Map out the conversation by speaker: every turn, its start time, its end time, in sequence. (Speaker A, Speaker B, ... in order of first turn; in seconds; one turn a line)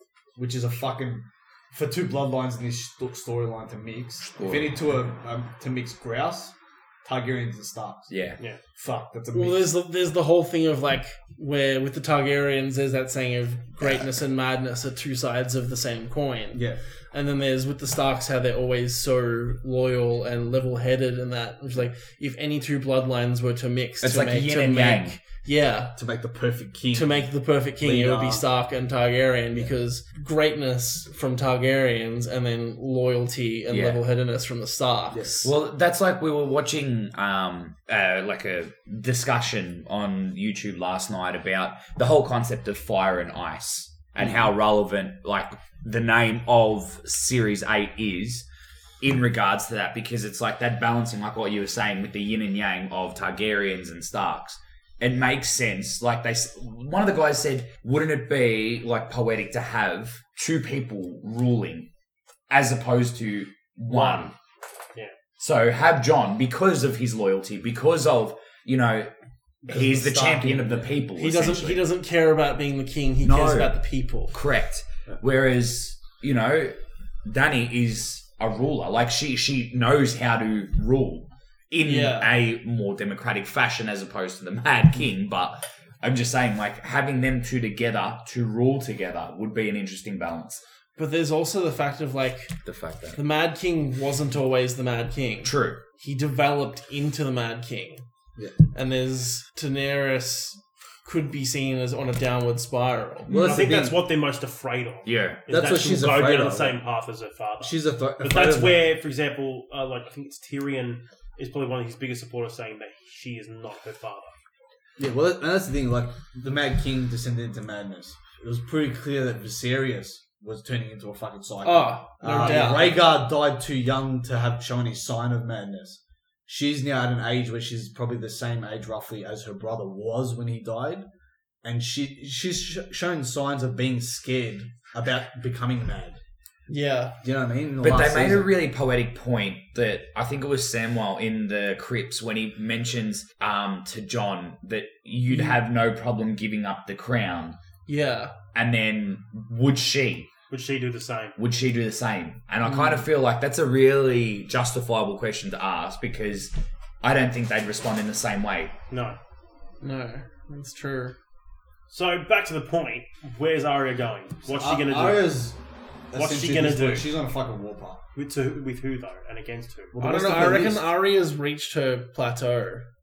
Speaker A: 0.3-8.1
Speaker B: 4.4-4.7
Speaker B: 8.1-8.4
Speaker A: 8.8-9.7
Speaker C: 9.3-25.9
Speaker A: 16.5-16.8
Speaker B: 24.0-25.2
Speaker A: 25.9-27.3
Speaker C: 26.9-35.5
Speaker A: 27.8-28.4
Speaker B: 33.7-34.0
Speaker B: 35.4-48.5
Speaker A: 44.2-44.5
Speaker B: 49.0-61.9
Speaker B: 62.5-64.3
Speaker D: 63.9-64.3
Speaker B: 65.4-69.1
Speaker A: 69.6-71.0
Speaker B: 69.7-71.8
Speaker C: 71.2-74.4
Speaker B: 73.2-73.7
Speaker B: 74.3-90.6
Speaker C: 81.8-82.3
Speaker C: 91.0-92.6
Speaker B: 92.6-93.2
Speaker C: 93.1-98.0
Speaker B: 95.4-95.8
Speaker C: 98.7-103.3
Speaker A: 103.3-104.0
Speaker D: 103.3-114.3
Speaker B: 105.0-105.4
Speaker A: 105.5-106.8
Speaker A: 107.6-108.9
Speaker A: 115.0-131.0
Speaker C: 121.6-123.0
Speaker D: 122.4-122.7
Speaker A: 131.6-136.2
Speaker C: 136.7-137.2
Speaker A: 137.2-138.5
Speaker B: 137.8-147.6
Speaker C: 145.3-145.6
Speaker C: 147.8-148.3
Speaker B: 148.5-150.3
Speaker D: 150.5-151.4
Speaker B: 151.4-158.7
Speaker C: 152.6-153.1
Speaker D: 158.9-159.2
Speaker C: 159.8-161.1
Speaker D: 161.9-165.3
Speaker A: 164.5-165.6
Speaker A: 166.1-168.0
Speaker D: 166.1-167.1
Speaker D: 168.1-169.9
Speaker A: 169.9-170.9
Speaker C: 170.0-172.8